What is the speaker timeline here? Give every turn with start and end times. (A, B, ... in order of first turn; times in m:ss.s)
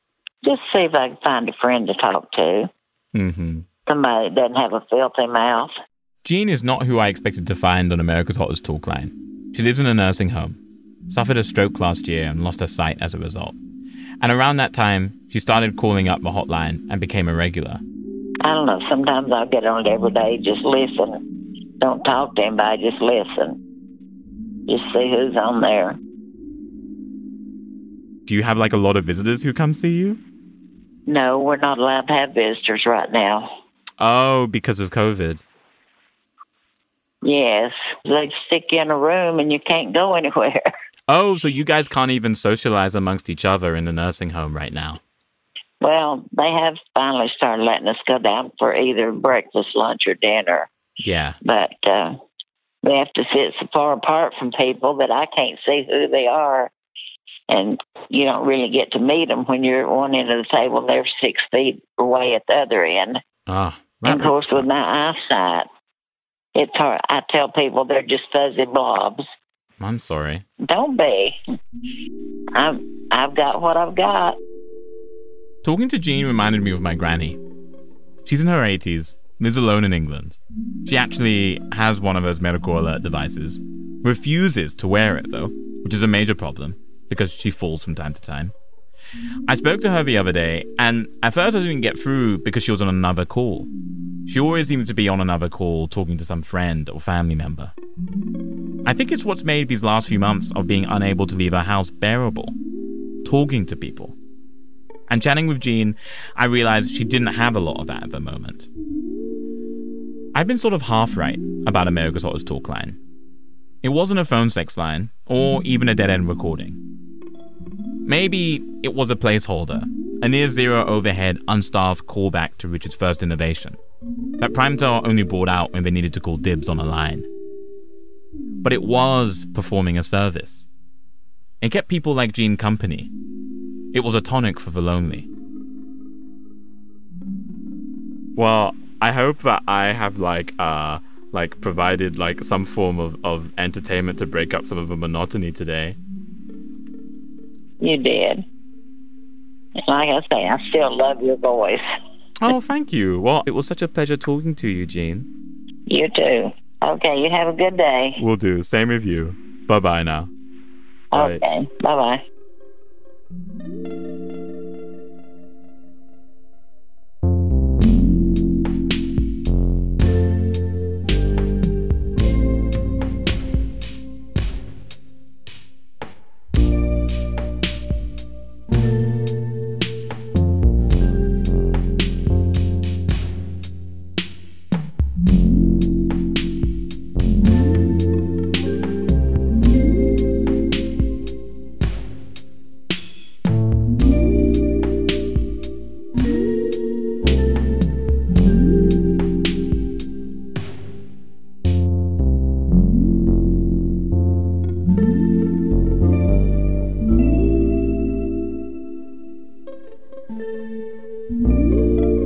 0:00.4-0:02.7 A
0:03.1-0:03.6 B
0:03.9-0:05.7 A
0:06.2-0:13.6 B
0:14.2-0:17.8 B
0:18.4-0:21.2 A
0:21.8-0:23.6 A
0:24.7-0:26.0 A
0:28.3-0:30.2 B
0:31.1-0:33.5 A
0:34.0-0:35.4 B
0:37.2-0:40.6 A
0:41.1-0:45.0 B
0:45.8-0:50.7 A
0:51.0-0:51.4 B
0:51.4-0:52.2 A
0:52.8-0:56.7 A
0:57.5-1:03.2 A
1:03.5-1:04.6 B
1:04.0-1:05.7 A
1:06.5-1:09.3 A
1:09.8-1:10.4 B
1:10.6-1:11.4 A
1:12.5-1:14.4 A
1:15.6-1:17.4 B
1:18.2-1:28.5 B
1:29.5-1:33.7 B
1:34.3-1:37.7 B
1:38.8-1:42.6 B
1:43.2-1:44.2 B
1:45.1-1:48.7 B
1:50.3-1:53.0 B
1:53.8-1:56.8 B
1:58.0-2:03.8 B
2:04.4-2:07.3 B
2:08.6-2:10.6 B
2:11.6-2:13.1 B
2:13.9-2:15.3 B
2:18.4-2:26.0 B
2:27.8-2:28.4 A
2:29.9-2:31.8 A
2:32.4-2:35.3 B
2:35.9-2:38.2 A
2:38.2-2:40.3 B
2:41.1-2:41.4 B
2:41.1-2:42.2 A